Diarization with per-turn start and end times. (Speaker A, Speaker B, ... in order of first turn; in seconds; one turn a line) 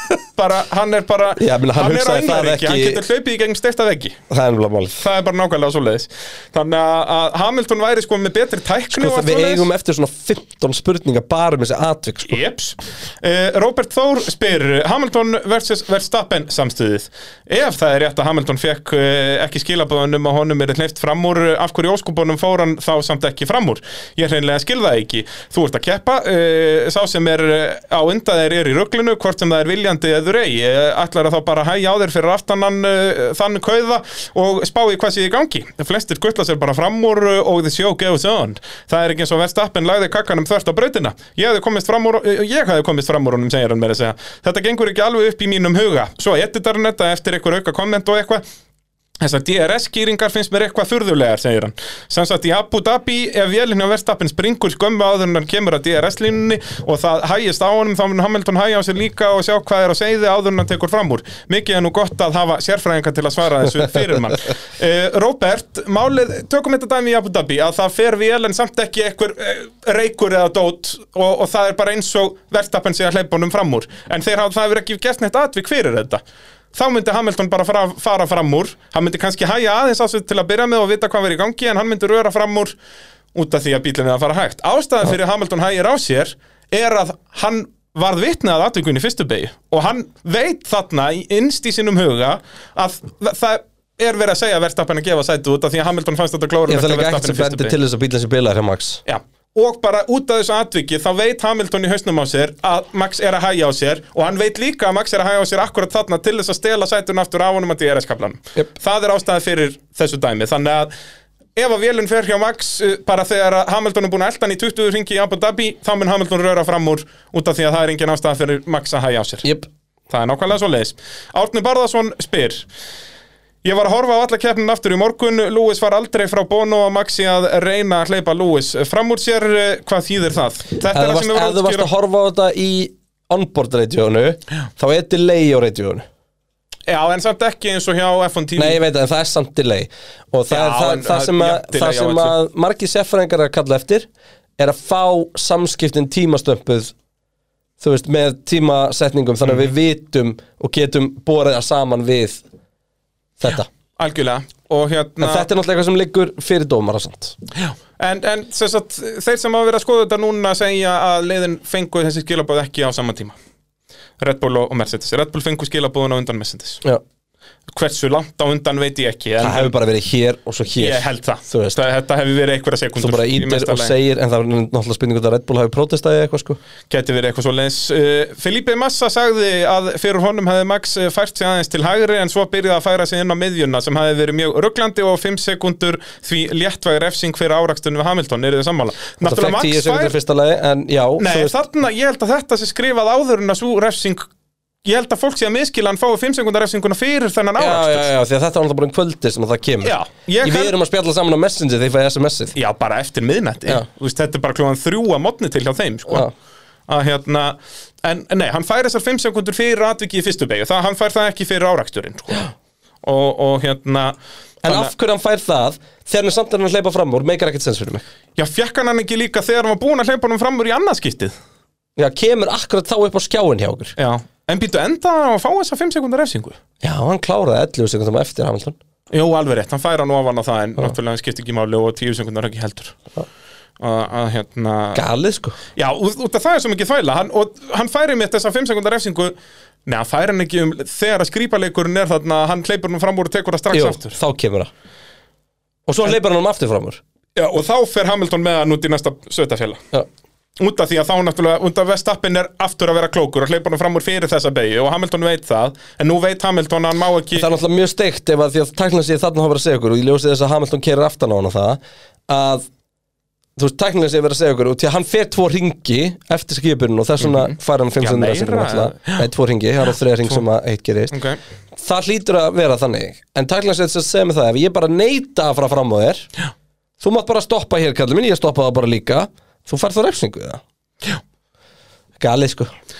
Speaker A: 0.3-4.2
Speaker B: 1.4-3.0
Speaker B: 4.3-5.0
Speaker A: 5.0-9.7
Speaker B: 8.9-12.4
Speaker A: 12.3-48.4
Speaker A: 49.2-76.2
Speaker A: 76.7-82.7
Speaker A: 83.3-97.8
Speaker B: 96.7-99.0
Speaker A: 99.0-110.9
Speaker A: 111.5-119.5
Speaker A: 120.1-122.7
Speaker A: 123.6-131.9
Speaker B: 130.9-136.0
Speaker A: 136.9-138.8
Speaker B: 138.6-146.9
Speaker A: 140.5-142.3
Speaker B: 147.8-152.4
Speaker B: 153.4-153.7
Speaker A: 154.0-155.5
Speaker B: 155.2-157.3
Speaker A: 157.6-163.3
Speaker A: 164.2-166.8
Speaker A: 167.7-169.7
Speaker B: 169.4-171.8
Speaker A: 170.8-173.9
Speaker B: 173.0-176.6
Speaker A: 176.9-190.1
Speaker B: 189.2-191.6
Speaker A: 191.2-194.3
Speaker A: 194.8-198.1
Speaker B: 197.6-202.6
Speaker A: 199.8-200.7
Speaker A: 202.5-206.3
Speaker B: 206.1-206.3
Speaker A: 206.9-212.5
Speaker A: 213.0-214.9
Speaker B: 214.6-218.0
Speaker A: 218.3-221.3
Speaker B: 222.0-223.9
Speaker A: 224.0-226.6
Speaker B: 226.8-228.8
Speaker A: 229.1-233.0
Speaker A: 233.8-235.0
Speaker B: 234.9-235.6
Speaker A: 235.7-239.3
Speaker A: 239.8-244.2
Speaker B: 243.7-244.7
Speaker B: 245.9-247.0
Speaker A: 247.3-249.8
Speaker A: 250.6-257.4
Speaker B: 257.3-262.7
Speaker B: 263.6-271.2
Speaker A: 267.2-269.2
Speaker A: 271.1-271.4
Speaker B: 271.8-276.3
Speaker B: 277.0-280.6
Speaker B: 282.2-282.7